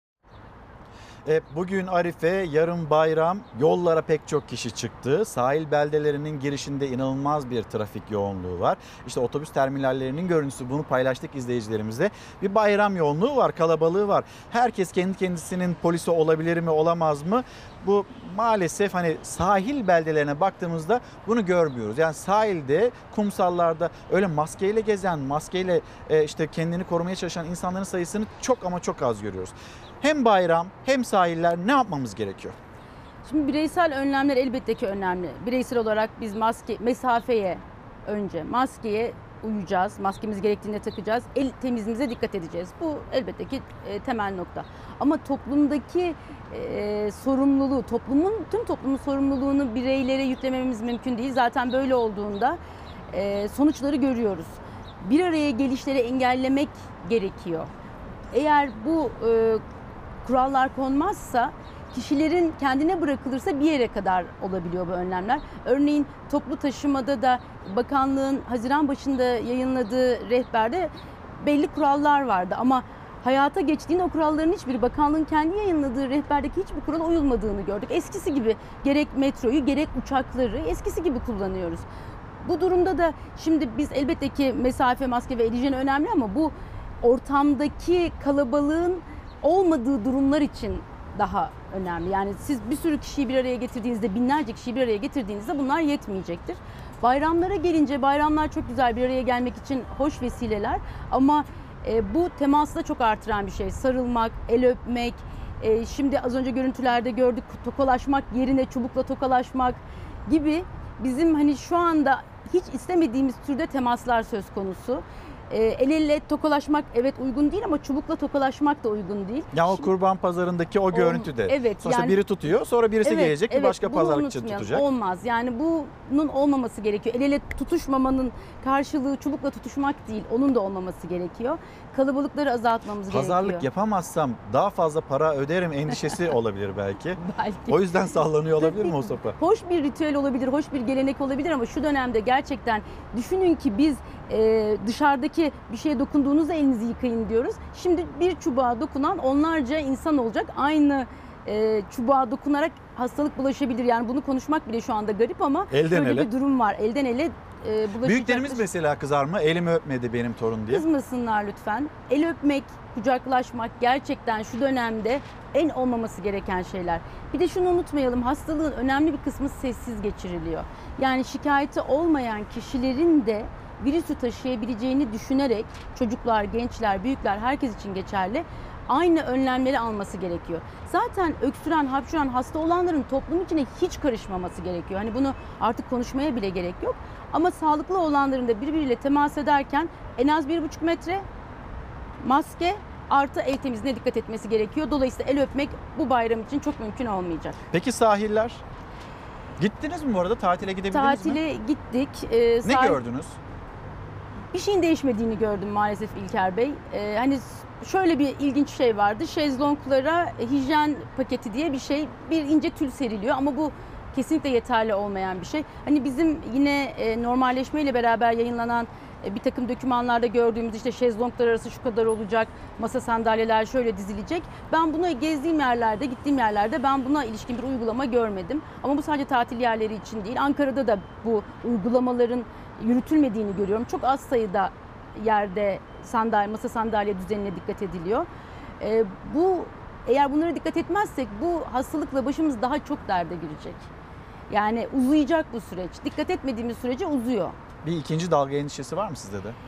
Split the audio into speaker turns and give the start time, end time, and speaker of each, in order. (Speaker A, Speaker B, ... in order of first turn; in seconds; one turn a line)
Speaker A: 1.2-32.6
Speaker B: 33.2-52.6
Speaker B: 53.1-57.7
Speaker B: 58.3-59.6
Speaker B: 60.2-81.8
Speaker B: 82.4-119.9
Speaker A: 119.5-124.8
Speaker B: 120.9-122.2
Speaker B: 123.0-133.7
Speaker A: 133.1-139.4
Speaker B: 135.9-136.2
Speaker B: 137.2-137.9
Speaker B: 138.6-158.7
Speaker A: 155.7-156.3
Speaker A: 158.0-160.8
Speaker B: 160.7-191.2
Speaker B: 192.2-197.6
Speaker A: 197.7-198.6
Speaker A: 199.6-201.4
Speaker B: 200.9-203.0
Speaker A: 202.7-203.4
Speaker B: 204.5-238.3
Speaker B: 238.8-243.9
Speaker B: 244.5-247.6
Speaker A: 247.8-249.6